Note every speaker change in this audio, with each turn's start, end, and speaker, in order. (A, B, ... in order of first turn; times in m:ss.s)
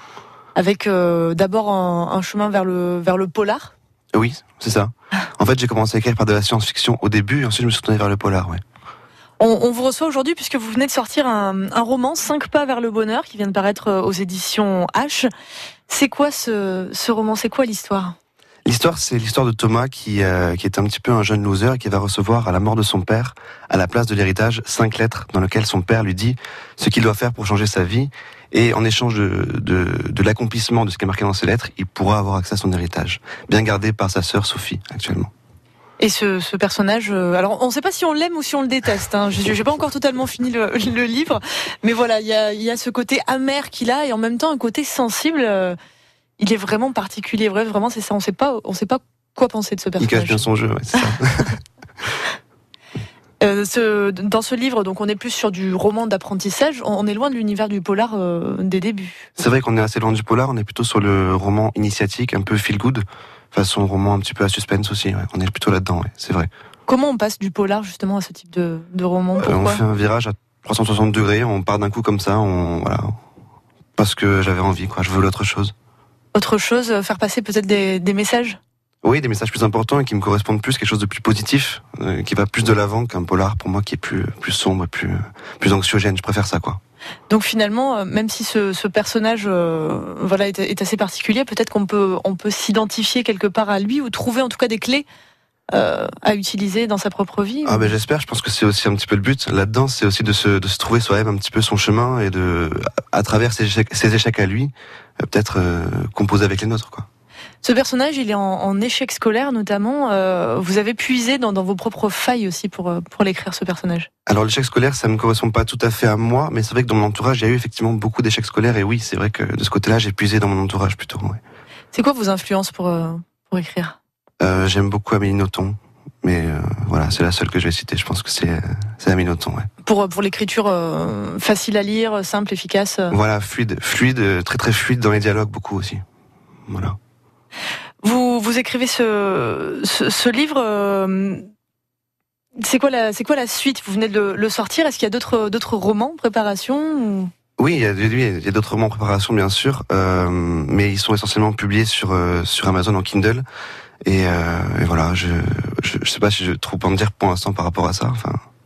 0:00.5-0:03.7 A
0:04.1-0:08.6 B
0:09.4-0:15.3 A
0:15.9-0:18.1 A
0:18.6-0:35.3 B
0:36.0-0:45.8 A
0:46.4-0:50.4 A
0:50.0-0:51.6 B
0:53.4-0:59.3 A
0:59.4-1:06.5 B
1:06.9-1:09.8 A
1:09.4-1:13.2 B
1:14.0-1:15.7 B
1:16.3-1:18.6 A
1:19.0-1:26.8 B
1:27.3-1:35.0 A
1:35.7-1:37.9 A
1:37.6-1:47.0 B
1:47.6-1:54.1 A
1:54.2-2:01.4 B
2:01.9-2:04.0 A
2:04.4-2:09.7 B
2:09.8-2:13.2 A
2:13.1-2:16.0 B
2:16.7-2:17.0 B
2:18.0-2:21.4 A
2:22.6-2:27.3 A
2:27.6-2:33.4 B
2:34.0-2:38.4 B